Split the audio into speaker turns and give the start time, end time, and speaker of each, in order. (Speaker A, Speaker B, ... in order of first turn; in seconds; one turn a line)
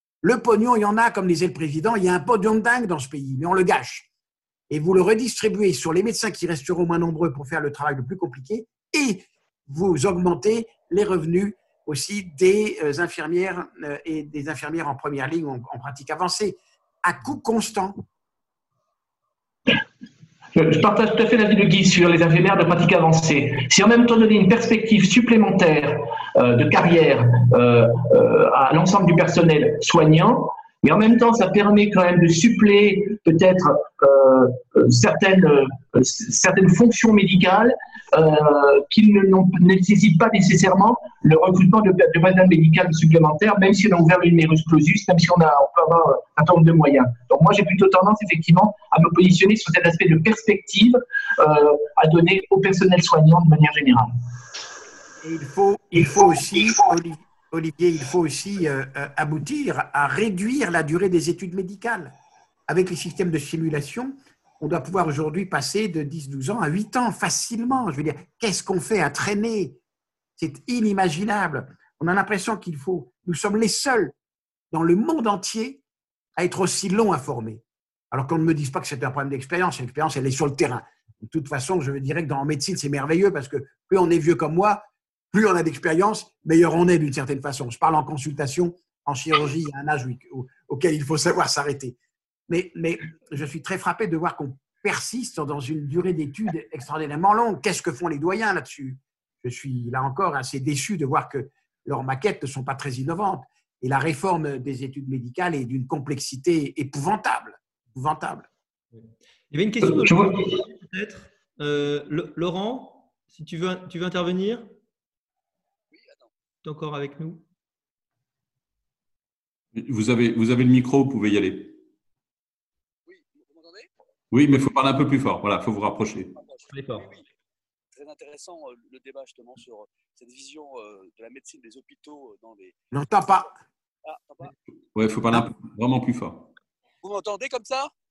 Speaker A: 0.2-4.1
Speaker A: 4.7-18.0
Speaker B: 20.5-54.1
Speaker A: 55.2-62.1
Speaker A: 62.7-69.8
Speaker A: 70.4-74.1
Speaker A: 74.7-75.8
Speaker A: 76.4-92.0
Speaker A: 92.5-108.5
Speaker C: 109.0-114.7
Speaker B: 109.8-110.6
Speaker D: 115.9-116.3
Speaker C: 116.6-117.4
Speaker E: 119.7-121.8
Speaker D: 123.1-123.9
Speaker E: 124.3-126.3
Speaker D: 126.3-127.2
Speaker C: 126.7-127.1
Speaker D: 127.9-132.8
Speaker A: 132.9-133.5
Speaker D: 134.0-134.5
Speaker E: 134.9-136.5
Speaker D: 137.0-137.9